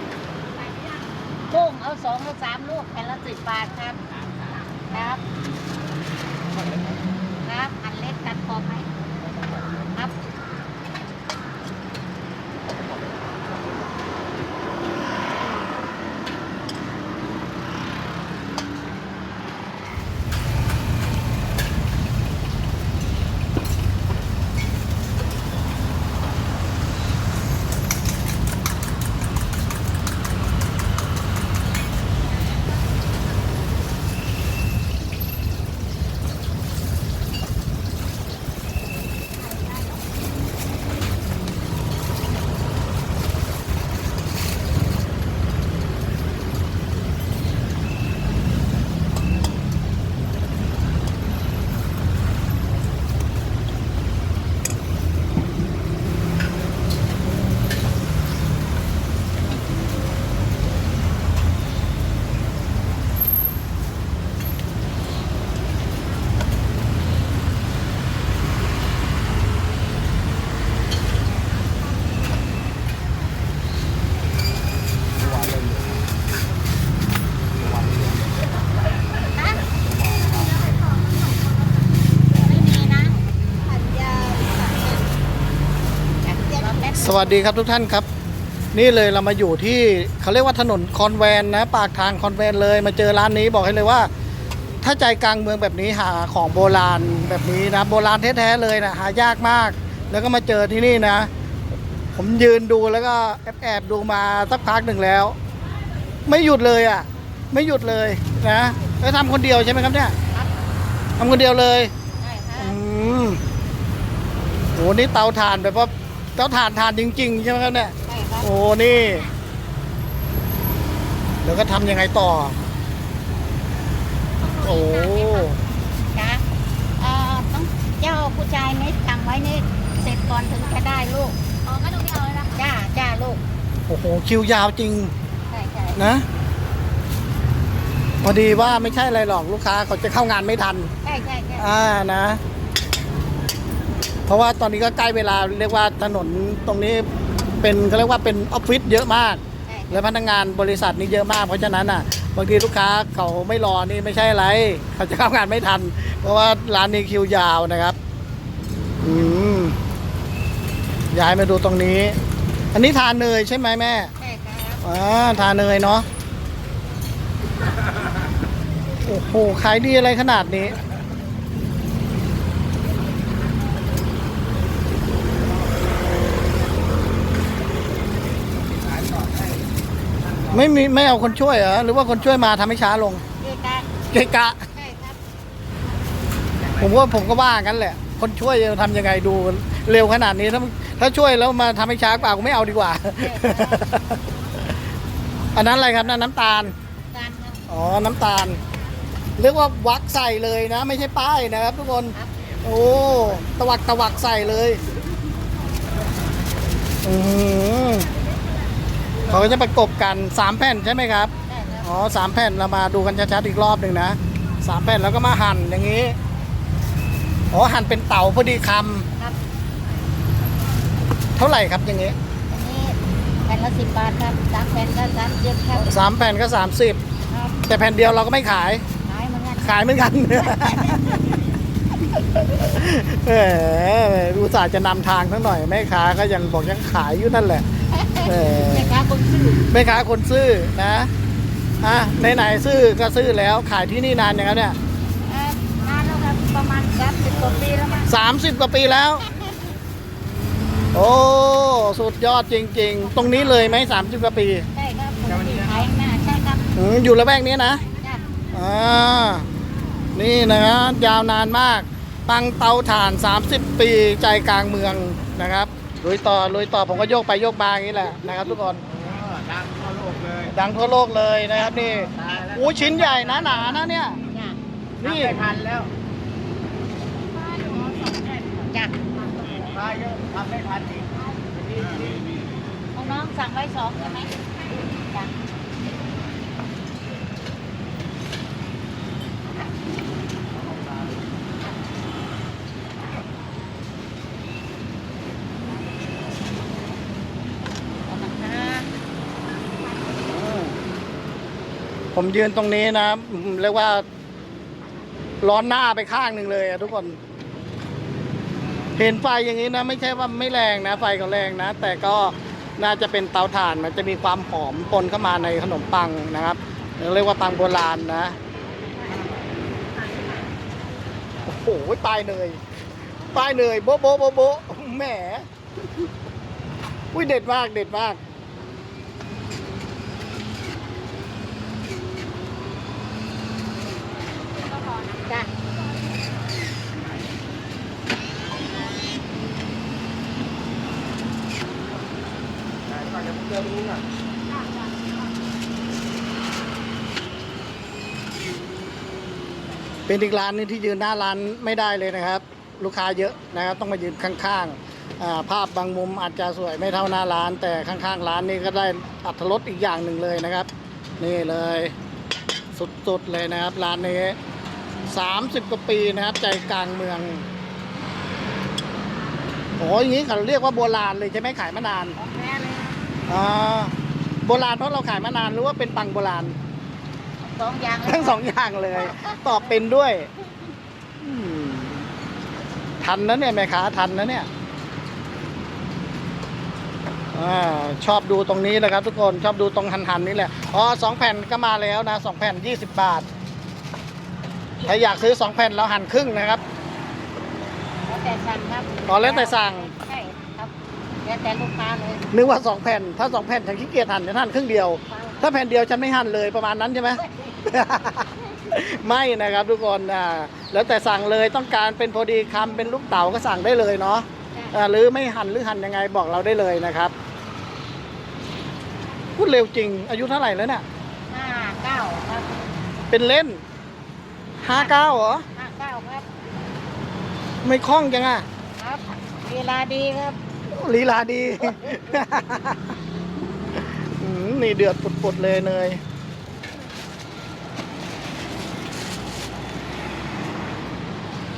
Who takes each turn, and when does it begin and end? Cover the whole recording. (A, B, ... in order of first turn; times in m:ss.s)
0:01.5-0:04.0 A
0:04.9-0:05.2 A
0:07.4-0:08.9 A
1:19.4-1:19.6 A
1:22.4-1:23.2 A
1:23.7-1:25.0 B
1:26.2-1:27.4 A
1:27.0-1:28.0 C
1:28.7-1:34.1 C
1:34.8-1:41.3 C
1:42.1-1:45.4 C
1:46.3-1:50.1 C
1:51.2-1:51.9 C
1:52.2-1:52.8 A
1:52.6-1:53.4 C
1:54.8-1:59.3 C
1:58.0-1:58.5 A
2:01.4-2:02.6 C
2:04.4-2:05.5 A
2:04.6-2:05.6 C
2:06.1-2:06.4 A
2:07.0-2:13.4 A
2:13.9-2:15.1 C
2:15.5-2:16.0 A
2:15.9-2:16.2 C
2:18.2-2:20.9 C
2:21.0-2:21.7 A
2:21.6-2:22.4 C
2:24.3-2:27.0 C
2:27.6-2:38.0 C
2:29.7-2:30.0 A
2:39.0-2:39.8 C
2:41.1-2:42.2 C
2:42.7-2:44.1 C
2:44.2-2:44.8 A
2:44.8-2:46.0 C
2:49.0-2:50.8 C
3:00.5-3:03.2 C
3:03.3-3:05.2 A
3:04.1-3:04.6 C
3:06.8-3:14.2 C
3:13.2-3:13.9 A
3:15.5-3:16.7 C
3:17.1-3:17.6 A
3:17.7-3:18.6 C
3:19.4-3:24.8 C
3:27.0-3:28.1 C
3:29.3-3:31.3 C
3:31.5-3:31.9 A
3:31.8-3:36.2 C
3:37.5-3:39.1 C
3:41.4-3:42.2 C
3:42.5-3:45.9 A
3:45.8-3:47.0 C
3:47.3-3:47.6 A
3:47.7-3:48.8 C
3:49.0-3:49.8 A
3:49.6-3:51.2 C
3:50.6-3:51.3 A
3:52.0-3:57.6 C
3:57.9-3:59.7 A
3:58.2-3:58.9 C
3:59.7-4:01.1 C
4:01.8-4:04.8 C
4:05.2-4:08.1 A
4:08.1-4:09.2 C
4:10.9-4:14.7 C
4:13.0-4:13.8 A
4:14.7-4:16.6 A
4:16.7-4:17.8 C
4:18.0-4:18.2 A
4:18.5-4:19.5 C
4:20.1-4:28.8 C
4:29.3-4:30.3 B
4:30.5-4:34.2 C
4:33.6-4:34.6 A
4:35.0-4:35.5 C
4:35.4-4:35.9 B
4:38.6-4:39.0 A
4:39.7-4:41.0 B
4:42.9-4:45.3 A
4:58.0-4:58.9 A
5:00.1-5:00.8 C
5:02.1-5:04.0 C
5:05.4-5:07.2 C
5:09.0-5:18.4 C
5:21.4-5:22.6 C
5:23.3-5:25.4 C
5:27.1-5:28.2 C
5:34.9-5:35.5 A
5:50.1-6:01.9 C
6:02.7-6:04.4 C
6:05.1-6:07.4 C
6:09.8-6:12.2 C
6:12.2-6:13.0 A
6:13.3-6:13.9 C
6:14.4-6:16.5 C
6:17.4-6:19.7 A
6:18.1-6:20.3 C
6:21.2-6:22.1 C
6:23.0-6:24.5 C
6:27.3-6:33.2 C
6:34.8-6:36.6 C
6:38.0-6:42.2 A
6:39.1-6:39.9 C
6:42.3-6:57.1 C
6:45.1-6:45.5 A
6:47.2-6:47.6 A
6:59.4-7:00.8 C
7:01.3-7:02.6 A
7:03.1-7:03.6 C
7:04.6-7:05.4 C
7:04.7-7:05.0 A
7:05.5-7:06.2 A
7:07.6-7:08.4 C
7:08.8-7:10.4 A
7:10.7-7:13.0 C
7:13.7-7:16.0 C